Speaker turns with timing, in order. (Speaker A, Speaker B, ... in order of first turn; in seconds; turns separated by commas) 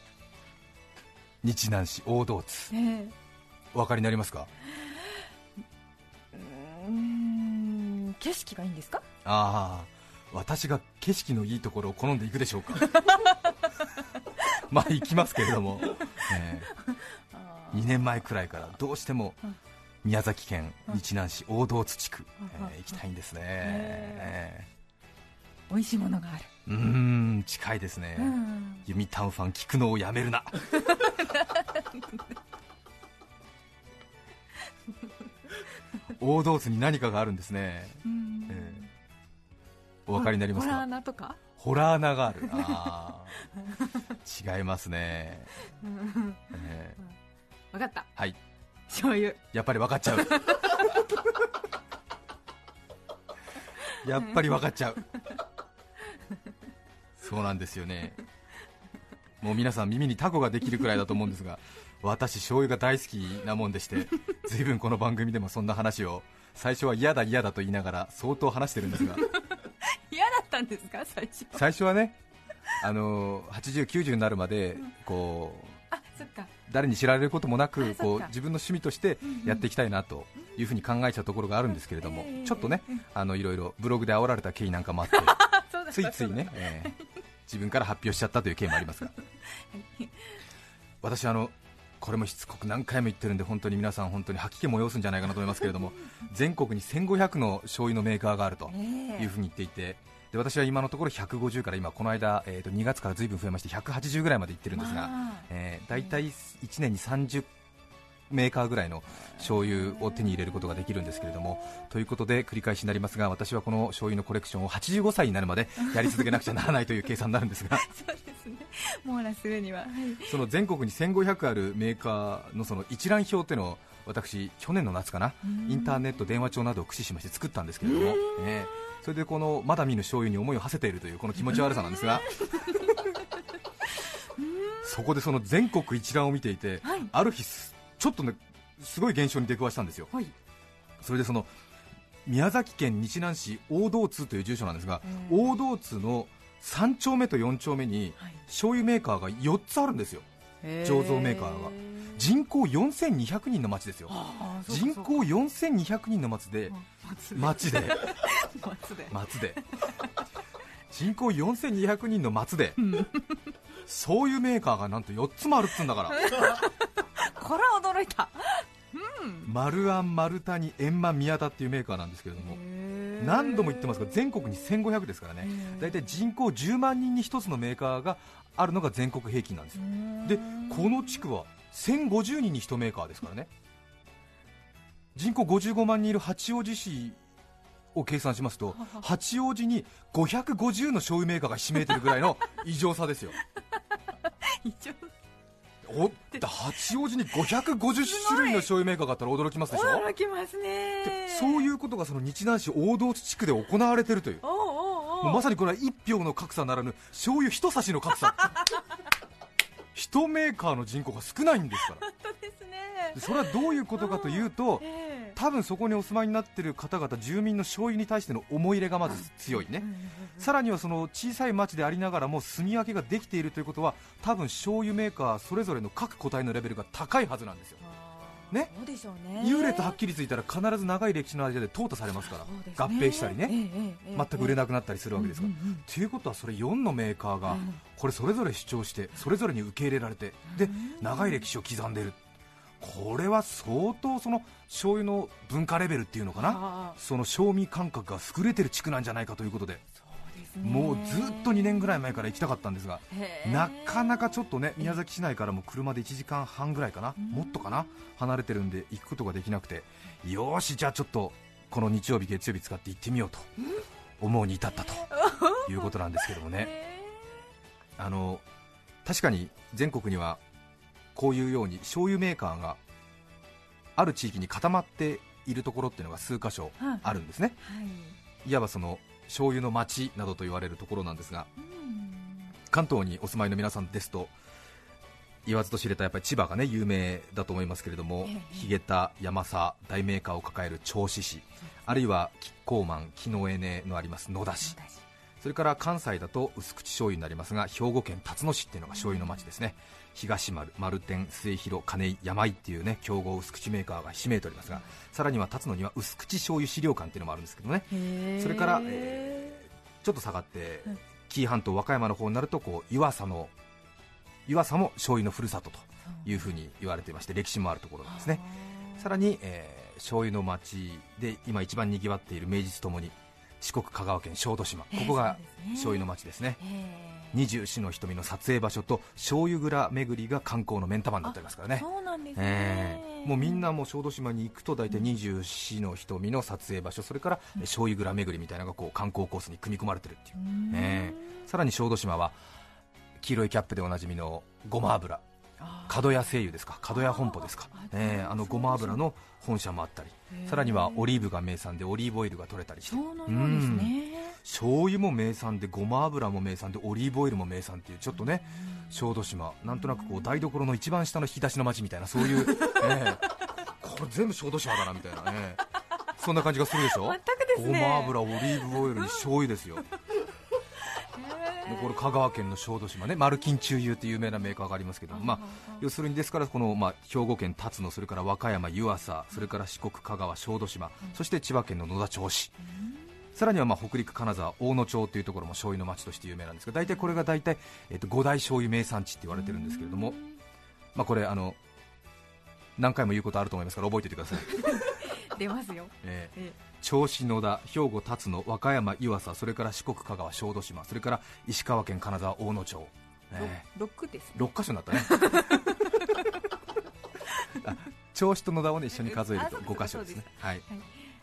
Speaker A: 1.4-2.7, Speaker B: 2.7-3.1, Speaker A: 3.7-4.5, Speaker B: 4.8-5.1, Speaker B: 6.3-9.1, Speaker A: 9.2-13.0, Speaker B: 12.8-13.5, Speaker A: 14.7-16.7, Speaker B: 15.8-18.2, Speaker A: 17.7-19.4, Speaker A: 20.0-24.7, Speaker B: 22.4-22.8, Speaker B: 23.6-24.3, Speaker B: 25.7-26.5, Speaker A: 26.7-30.7, Speaker B: 28.2-28.8, Speaker B: 30.8-32.3, Speaker A: 36.1-38.8, Speaker B: 38.0-38.9, Speaker A: 40.1-40.9, Speaker B: 40.1-41.4, Speaker A: 41.6-43.4, Speaker B: 42.4-43.0, Speaker B: 43.5-44.0, Speaker A: 44.2-45.5, Speaker B: 45.8-46.5, Speaker A: 46.5-47.0, Speaker B: 47.7-48.1, Speaker B: 48.9-49.5, Speaker A: 49.5-50.7, Speaker B: 50.1-50.9, Speaker A: 54.0-55.1, Speaker A: 57.2-58.2, Speaker A: 59.4-69.3, Speaker B: 69.1-71.7, Speaker A: 71.5-72.2, Speaker A: 72.8-75.8, Speaker B: 75.9-76.5, Speaker A: 76.7-85.4, Speaker B: 77.8-78.3, Speaker B: 79.2-79.7, Speaker B: 82.0-83.0, Speaker B: 85.1-87.0, Speaker A: 85.9-87.0, Speaker A: 87.5-89.1, Speaker B: 89.5-90.4, Speaker A: 91.0-107.5, Speaker B: 98.7-99.3, Speaker B: 104.7-105.5, Speaker A: 108.3-117.9, Speaker B: 109.5-111.7, Speaker B: 117.8-120.4, Speaker A: 120.2-132.4, Speaker B: 125.4-126.4, Speaker B: 127.8-128.7, Speaker B: 131.5-133.2, Speaker B: 134.1-134.9, Speaker A: 134.8-140.1, Speaker B: 136.8-137.1, Speaker A: 141.0-141.5, Speaker A: 142.3-150.3, Speaker B: 145.0-145.5, Speaker B: 150.6-152.3, Speaker A: 150.8-156.8, Speaker B: 154.1-155.3, Speaker B: 156.7-160.2, Speaker A: 157.3-158.2, Speaker A: 159.1-159.6, Speaker A: 160.9-162.9, Speaker B: 162.8-163.5, Speaker A: 163.9-166.4, Speaker B: 166.1-169.5, Speaker A: 169.4-172.6, Speaker B: 172.4-174.3, Speaker A: 173.2-183.5, Speaker B: 175.4-176.2, Speaker B: 179.8-181.2, Speaker A: 185.2-187.2, Speaker A: 187.9-193.4, Speaker B: 188.8-189.1, Speaker B: 191.9-192.1, Speaker B: 193.4-195.1, Speaker A: 195.8-200.1, Speaker B: 197.9-198.7, Speaker B: 199.7-201.7, Speaker A: 201.0-204.4, Speaker B: 204.4-205.5, Speaker A: 205.2-208.6, Speaker A: 209.9-212.1, Speaker B: 212.0-215.4, Speaker A: 213.1-227.8, Speaker B: 219.5-220.5, Speaker B: 227.8-230.0, Speaker A: 229.4-233.6, Speaker B: 232.2-234.6, Speaker A: 234.1-242.2, Speaker B: 235.2-235.8, Speaker B: 237.5-237.8, Speaker B: 240.5-241.4, Speaker A: 242.8-249.8, Speaker B: 246.4-247.0, Speaker B: 250.0-252.1, Speaker A: 250.6-263.5, Speaker B: 253.1-254.8, Speaker B: 257.2-257.9, Speaker A: 264.2-265.1, Speaker B: 265.1-267.5, Speaker A: 265.6-266.7, Speaker A: 268.0-268.4, Speaker A: 269.1-270.4, Speaker A: 271.1-272.8, Speaker A: 274.0-277.6, Speaker B: 276.8-278.2, Speaker A: 278.4-281.5, Speaker B: 281.6-282.5, Speaker A: 282.7-284.3, Speaker A: 285.4-294.8, Speaker B: 288.2-288.8, Speaker B: 294.6-295.0, Speaker A: 295.4-313.5, Speaker B: 298.9-299.5, Speaker B: 307.9-309.6, Speaker A: 314.5-318.4, Speaker B: 316.1-316.4, Speaker B: 318.1-319.1, Speaker A: 319.0-326.6, Speaker B: 324.9-326.1, Speaker B: 326.6-327.4, Speaker A: 327.3-342.4, Speaker B: 331.2-333.7, Speaker B: 340.4-341.4, Speaker A: 343.2-345.2, Speaker B: 345.6-346.2, Speaker A: 345.9-365.6, Speaker B: 346.9-349.1, Speaker B: 350.3-351.3, Speaker B: 352.9-354.4, Speaker B: 358.2-359.1, Speaker B: 359.7-360.4, Speaker B: 362.3-362.9, Speaker A: 366.1-369.8, Speaker B: 366.8-369.3, Speaker B: 370.8-372.2, Speaker A: 371.6-382.5, Speaker B: 375.1-375.9, Speaker B: 382.6-383.2, Speaker A: 383.4-390.2, Speaker B: 386.8-387.1, Speaker B: 389.3-390.4, Speaker A: 390.9-391.6, Speaker A: 392.8-394.9, Speaker B: 394.6-396.6, Speaker A: 396.0-403.6, Speaker B: 403.4-406.3, Speaker A: 404.4-405.7, Speaker A: 407.6-410.6, Speaker B: 408.9-411.1